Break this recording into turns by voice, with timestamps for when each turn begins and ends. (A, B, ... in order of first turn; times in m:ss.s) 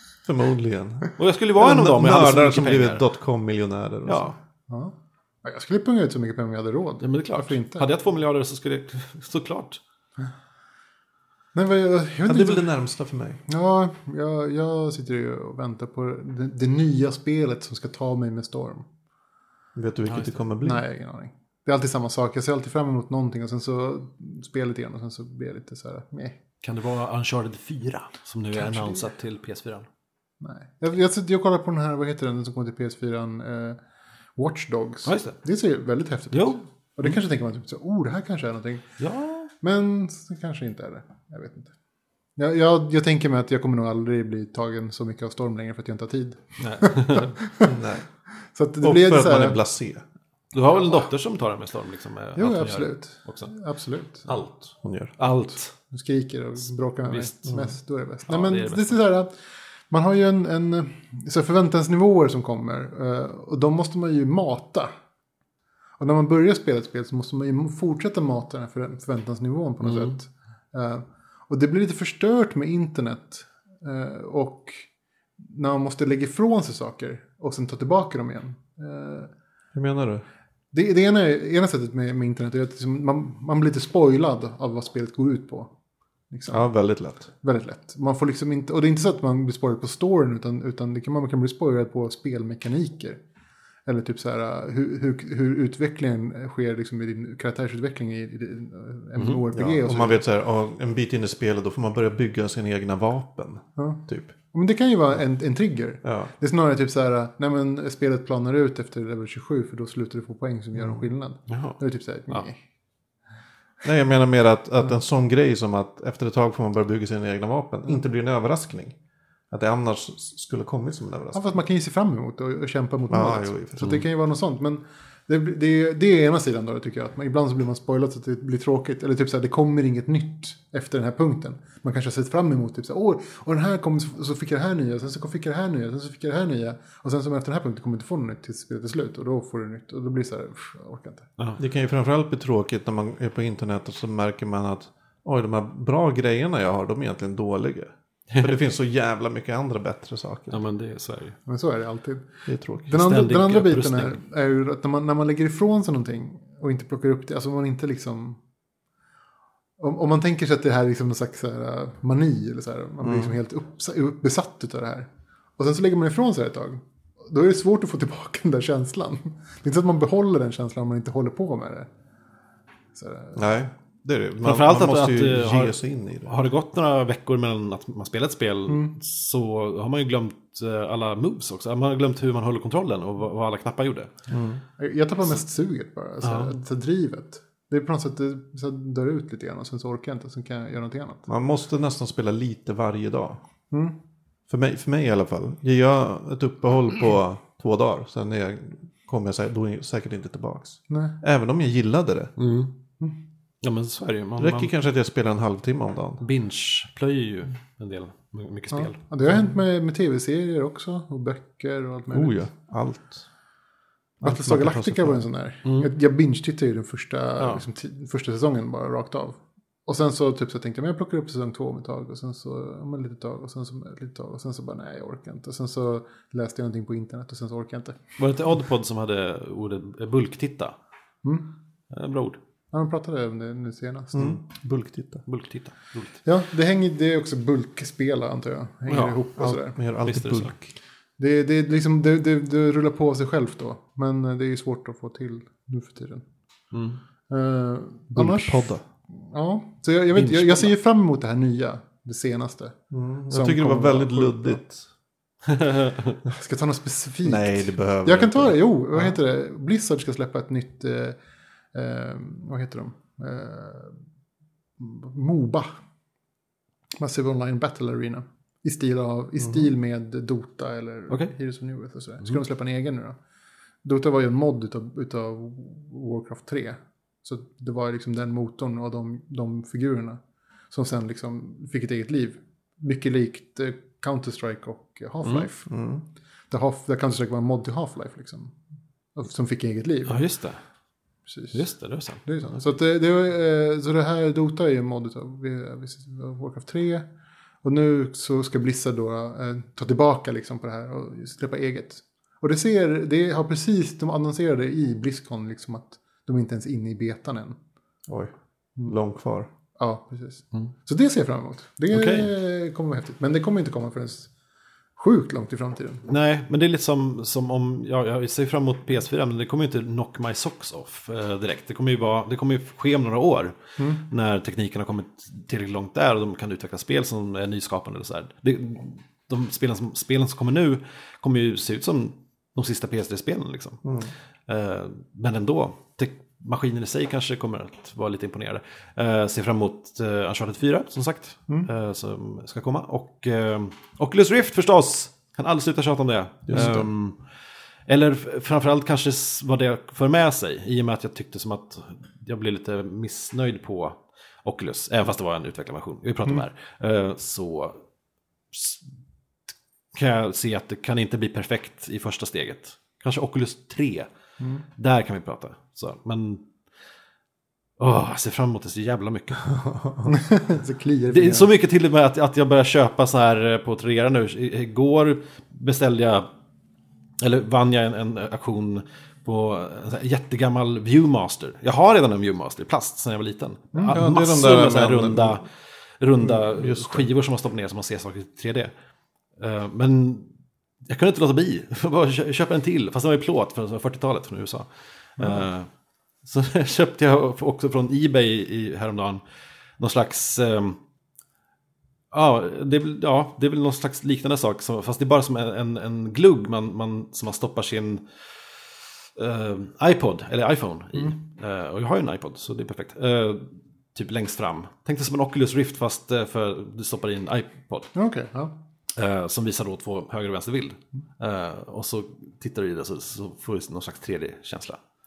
0:00.2-0:04.3 A
0:01.2-0:03.0 B
0:04.0-0:04.4 B
0:04.7-0:07.9 C
0:07.0-0:09.8 B
0:11.5-0:12.7 C
0:12.2-0:13.4 A
0:13.5-0:18.8 C
0:19.8-0:20.8 A
0:20.1-0:20.4 B
0:20.6-0:26.4 C
0:26.6-0:29.9 B
0:28.7-0:29.0 C
0:30.4-0:33.8 C
0:34.4-0:39.0 C
0:35.0-0:35.4 B
0:36.3-0:37.1 B
0:39.0-0:39.5 B
0:39.6-0:41.7 C
0:42.4-0:47.8 C
0:46.6-0:47.4 B
0:47.6-0:48.1 A
0:48.5-0:49.6 C
0:48.8-0:50.0 A
0:50.5-0:53.5 B
0:52.4-0:54.3 C
0:54.2-0:55.7 B
0:54.8-0:55.1 A
0:55.8-0:59.3 C
0:57.1-0:57.5 B
0:58.3-0:59.0 B
0:59.9-1:04.9 C
1:06.0-1:14.8 C
1:09.8-1:10.1 B
1:15.4-1:19.3 C
1:19.7-1:20.2 A
1:20.7-1:25.7 C
1:26.3-1:26.7 C
1:26.5-1:27.3 A
1:27.4-1:33.2 C
1:33.8-1:40.2 C
1:39.2-1:39.4 B
1:39.5-1:44.3 A
1:43.8-1:52.6 C
1:46.0-1:46.3 A
1:51.5-1:51.8 B
1:53.8-1:59.0 A
1:59.5-2:01.5 A
2:01.3-2:21.3 C
2:03.1-2:04.0 A
2:21.6-2:30.6 A
2:30.5-2:31.4 B
2:31.4-2:32.3 C
2:32.5-2:32.9 A
2:32.9-2:38.4 C
2:32.9-2:34.2 B
2:39.8-2:51.9 C
2:43.0-2:43.4 A
2:52.9-2:53.4 C
2:53.4-2:56.3 A
2:54.4-3:04.1 B
2:58.7-2:58.9 C
3:04.3-3:04.6 A
3:04.8-3:11.3 C
3:06.2-3:06.5 B
3:11.3-3:13.4 A
3:14.5-3:22.3 A
3:20.9-3:21.2 C
3:22.4-3:22.7 B
3:23.6-3:24.7 B
3:24.4-3:26.2 A
3:26.2-3:29.0 B
3:28.7-3:32.4 C
3:32.1-3:33.2 A
3:34.2-3:35.2 A
3:34.2-3:48.0 C
3:35.6-3:35.9 B
3:37.4-3:37.6 B
3:48.2-3:50.8 B
3:51.9-3:52.4 B
3:52.7-3:54.4 C
3:54.1-3:55.2 A
3:55.2-3:56.2 B
3:56.2-3:59.8 C
3:58.9-3:59.2 B
3:59.4-4:00.7 A
4:00.0-4:00.5 B
4:01.2-4:06.2 C
4:06.7-4:07.0 B
4:07.3-4:12.8 C
4:08.1-4:08.8 A
4:10.1-4:10.7 B
4:12.9-4:14.9 A
4:13.3-4:14.6 C
4:15.4-4:16.2 B
4:16.3-4:21.2 C
4:17.2-4:19.1 A
4:21.7-4:24.0 C
4:24.8-4:25.7 C
4:27.0-4:33.2 C
4:31.1-4:31.3 B
4:33.8-4:40.2 C
4:40.7-4:45.7 C
4:45.2-4:45.5 B
4:45.7-4:46.0 A
4:46.5-4:48.5 C
4:49.2-4:50.2 C
4:50.0-4:50.6 B
4:51.3-4:51.6 C
4:51.5-4:52.2 B
4:52.2-4:57.0 C
4:57.6-5:07.6 C
5:08.8-5:09.5 A
5:09.8-5:14.3 C
5:11.9-5:12.3 B
5:15.0-5:16.0 C
5:16.1-5:33.8 B
5:23.8-5:24.0 C
5:33.8-5:34.1 A
5:34.5-5:47.2 B
5:46.5-5:46.9 A
5:47.9-5:57.8 B
5:58.5-5:58.8 B
5:59.9-6:04.1 B
6:04.8-6:06.4 B
6:07.8-6:09.5 B
6:09.5-6:10.1 A
6:10.0-6:11.5 C
6:11.1-6:16.3 B
6:17.2-6:25.5 B
6:23.7-6:24.0 C
6:23.9-6:25.4 A
6:26.0-6:28.7 B
6:26.2-6:27.1 A
6:29.4-6:30.3 B
6:30.8-6:35.7 B
6:36.2-6:39.2 B
6:39.8-6:40.8 B
6:42.1-6:48.0 B
6:49.2-6:57.9 B
6:57.9-6:58.5 C
6:59.0-7:04.8 B